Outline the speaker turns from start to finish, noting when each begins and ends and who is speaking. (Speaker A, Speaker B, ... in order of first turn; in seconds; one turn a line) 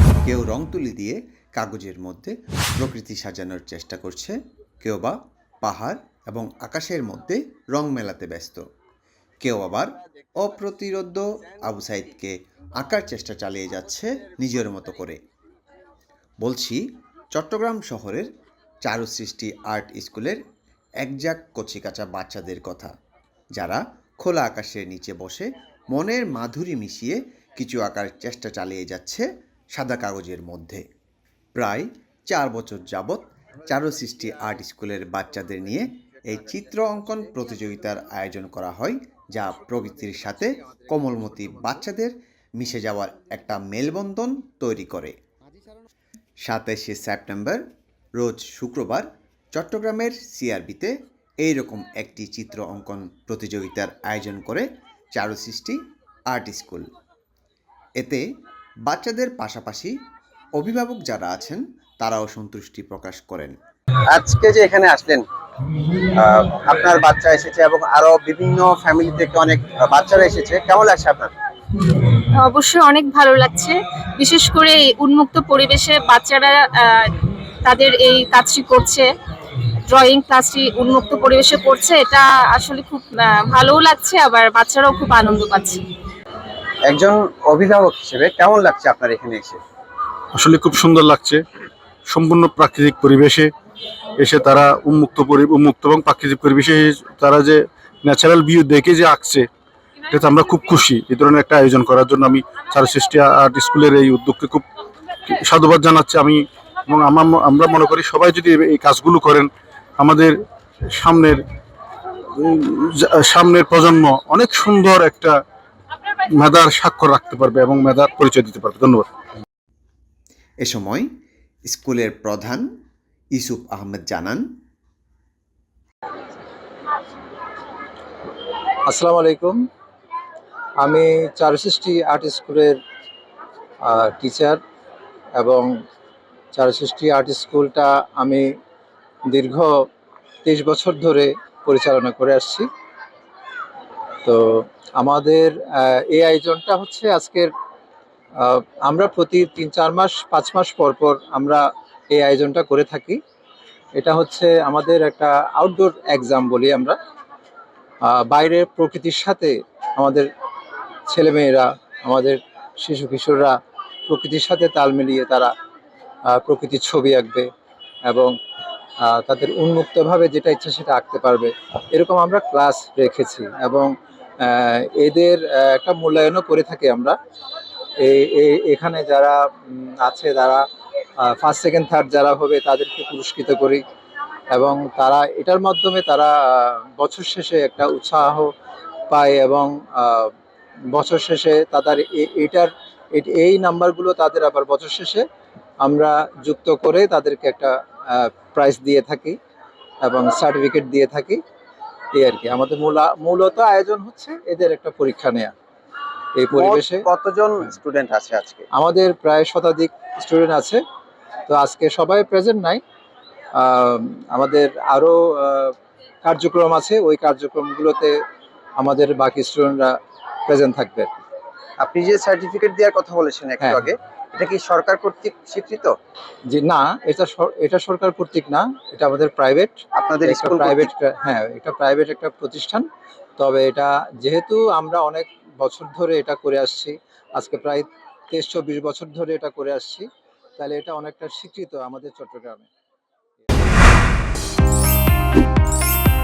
Speaker A: 0.2-8.6
Speaker A: 9.4-15.2
Speaker A: 16.4-16.8
Speaker A: 17.3-18.3
Speaker A: 18.9-20.4
Speaker A: 21.0-22.9
Speaker A: 23.6-30.8
Speaker A: 31.6-45.2
Speaker A: 46.5-47.6
Speaker A: 48.2-56.9
Speaker A: 58.0-58.2
Speaker A: 58.9-60.0
Speaker A: 60.6-63.6
Speaker B: 64.1-65.2
Speaker B: 66.0-71.3
Speaker C: 72.0-79.1
Speaker C: 79.9-85.8
Speaker B: 86.8-89.6
Speaker D: 90.3-91.4
Speaker D: 92.1-93.5
Speaker D: 94.2-99.5
Speaker D: 100.1-104.6
Speaker D: 105.3-110.4
Speaker D: 110.9-111.4
Speaker D: 112.4-115.4
Speaker D: 116.3-119.1
Speaker A: 120.6-121.1
Speaker A: 121.7-122.7
Speaker A: 123.3-124.5
Speaker E: 128.9-129.6
Speaker E: 130.8-132.8
Speaker E: 133.9-134.6
Speaker E: 135.4-135.7
Speaker E: 136.5-138.5
Speaker E: 139.3-139.7
Speaker E: 140.4-142.7
Speaker E: 144.2-147.5
Speaker E: 148.4-153.2
Speaker E: 154.0-157.0
Speaker E: 158.1-160.3
Speaker E: 161.1-163.6
Speaker E: 164.1-165.5
Speaker E: 166.3-167.5
Speaker E: 168.1-168.3
Speaker E: 169.0-177.2
Speaker E: 178.0-180.6
Speaker E: 181.2-183.8
Speaker E: 184.5-188.5
Speaker E: 189.1-190.3
Speaker E: 190.9-195.2
Speaker E: 195.8-199.4
Speaker E: 200.0-201.4
Speaker E: 202.2-205.5
Speaker E: 206.4-207.0
Speaker B: 206.5-208.7
Speaker E: 208.8-210.8
Speaker E: 211.5-212.8
Speaker E: 213.6-218.2
Speaker E: 218.8-220.0
Speaker E: 220.5-221.2
Speaker B: 221.8-225.9
Speaker E: 223.6-223.9
Speaker E: 226.5-232.9
Speaker B: 230.0-230.9
Speaker E: 233.4-240.1
Speaker E: 240.6-242.7